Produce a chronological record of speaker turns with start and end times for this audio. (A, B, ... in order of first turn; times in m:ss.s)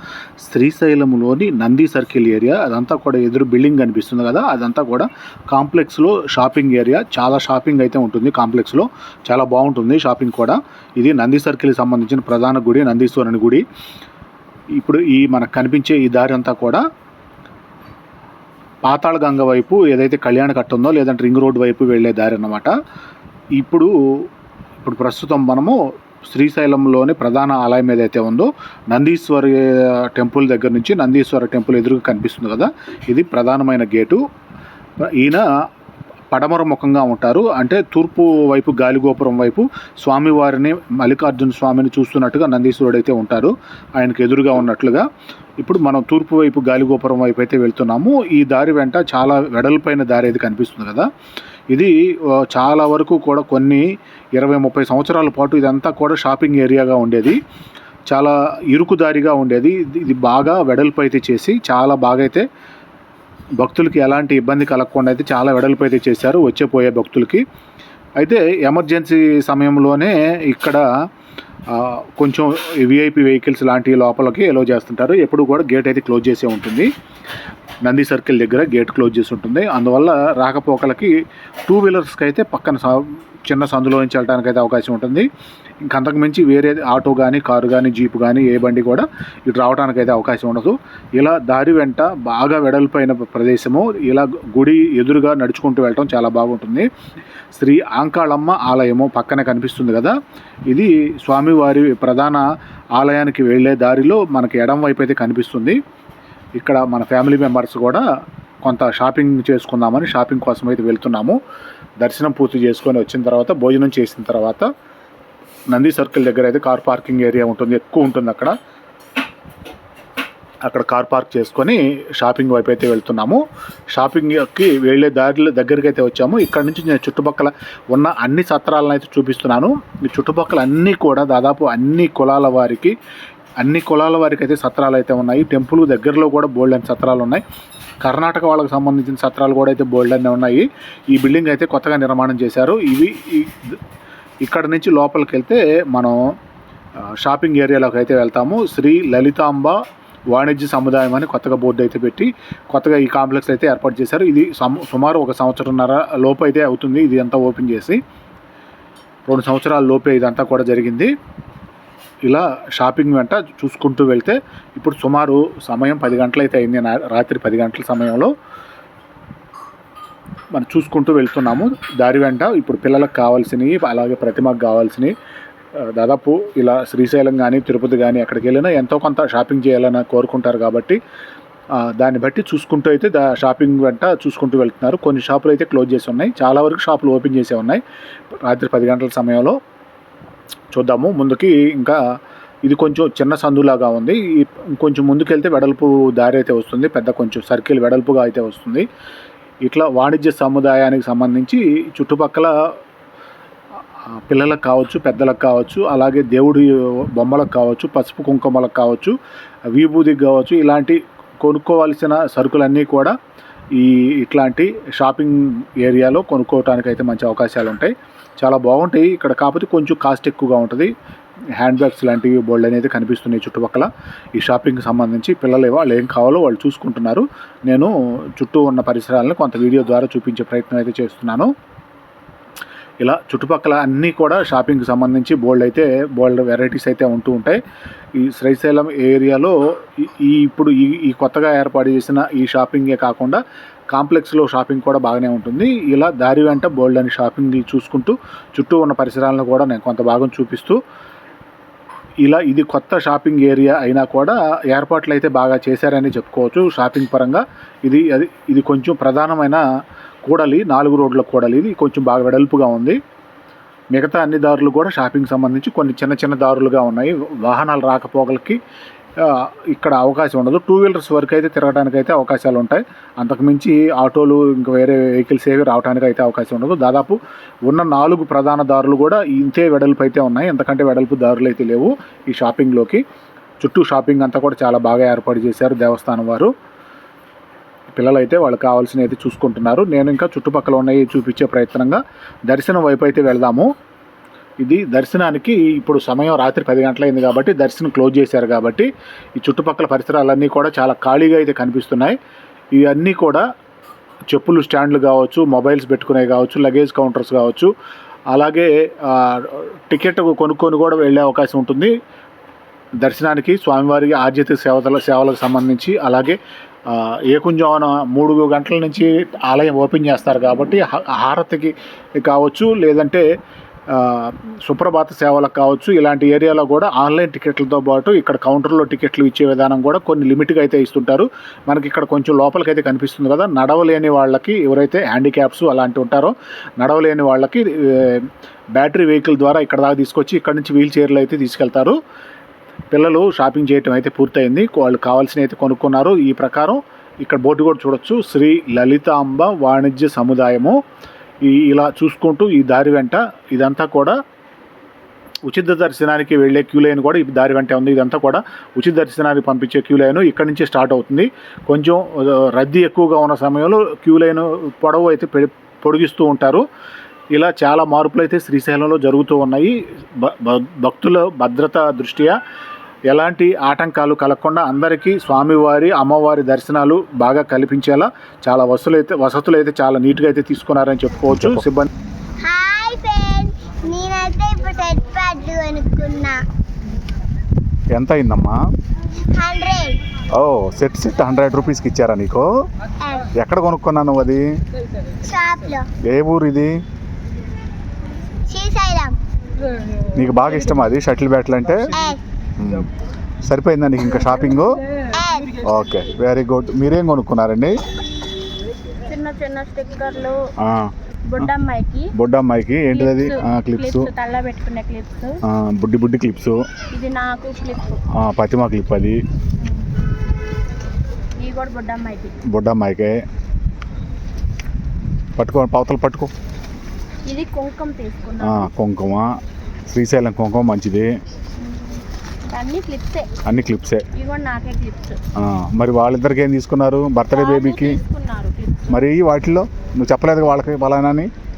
0:00.4-0:13.6 A
0:14.8-0:16.8 A
0:18.8-0:22.7 A
0:23.6-0:24.3 A
0:24.8-0:25.8 A
0:26.3-0:34.2 A
0:35.0-0:35.4 A
0:36.3-0:45.0 A
0:45.6-0:51.1 A
0:51.7-0:53.8 A
0:54.4-0:57.4 A
0:58.1-1:02.4 A
1:03.6-1:07.4 A
1:08.2-1:10.8 A
1:11.7-1:16.9 A
1:17.8-1:21.1 A
1:21.6-1:25.3 A
1:25.8-1:36.9 A
1:37.5-1:40.1 A
1:40.7-1:42.4 A
1:43.0-1:45.8 A
1:46.6-1:48.0 A
1:48.6-1:51.4 A
1:52.0-1:54.7 A
1:55.7-1:58.5 A
2:00.6-2:03.4 A
2:03.9-2:12.9 A
2:13.6-2:17.4 A
2:18.0-2:23.8 A
2:24.4-2:26.2 A
2:27.2-2:29.8 A
2:30.3-2:38.0 A
2:39.3-2:41.1 A
2:42.3-2:48.3 A
2:50.5-2:55.1 A
2:55.8-3:01.0 A
3:01.8-3:07.8 A
3:08.4-3:09.6 A
3:10.7-3:12.0 A
3:12.6-3:18.8 A
3:19.6-3:22.5 A
3:24.3-3:29.1 A
3:29.7-3:33.1 A
3:33.8-3:40.9 A
3:41.6-3:51.5 A
3:53.0-3:57.6 A
3:58.2-4:10.8 A
4:12.2-4:19.6 A
4:20.2-4:23.0 A
4:23.9-4:28.6 A
4:29.2-4:43.0 A
4:43.6-4:46.5 A
4:48.0-4:53.7 A
4:54.6-4:58.9 A
4:59.4-5:02.1 A
5:02.8-5:03.4 A
5:04.3-5:07.7 A
5:08.3-5:11.9 A
5:13.0-5:16.4 A
5:16.9-5:23.2 A
5:23.9-5:38.3 A
5:38.8-5:42.0 A
5:42.9-5:50.8 A
5:51.4-5:54.1 A
5:55.5-6:06.6 A
6:07.3-6:12.4 A
6:13.1-6:21.9 A
6:22.4-6:26.4 B
6:27.9-6:28.6 A
6:29.3-6:30.0 B
6:30.3-6:32.5 A
6:33.0-6:33.3 B
6:33.3-6:34.4 A
6:35.2-6:35.9 B
6:36.0-6:36.7 A
6:38.5-6:39.2 B
6:40.1-6:41.9 A
6:42.0-6:42.2 B
6:43.5-6:44.7 A
6:45.1-6:45.6 B
6:45.6-6:47.7 A
6:49.0-6:50.4 C
6:51.3-6:52.1 C
6:52.2-6:54.1 A
6:52.9-6:55.4 C
6:55.5-6:56.6 A
6:56.9-6:58.0 C
6:58.2-6:59.2 A
7:01.4-7:02.3 C
7:02.5-7:03.1 A
7:05.4-7:06.3 A
7:07.3-7:08.7 C
7:08.4-7:09.3 A
7:09.9-7:11.1 A
7:11.6-7:13.3 C
7:13.5-7:14.0 A
7:14.1-7:15.2 C
7:15.4-7:18.0 A
7:17.3-7:19.0 C
7:18.9-7:21.3 A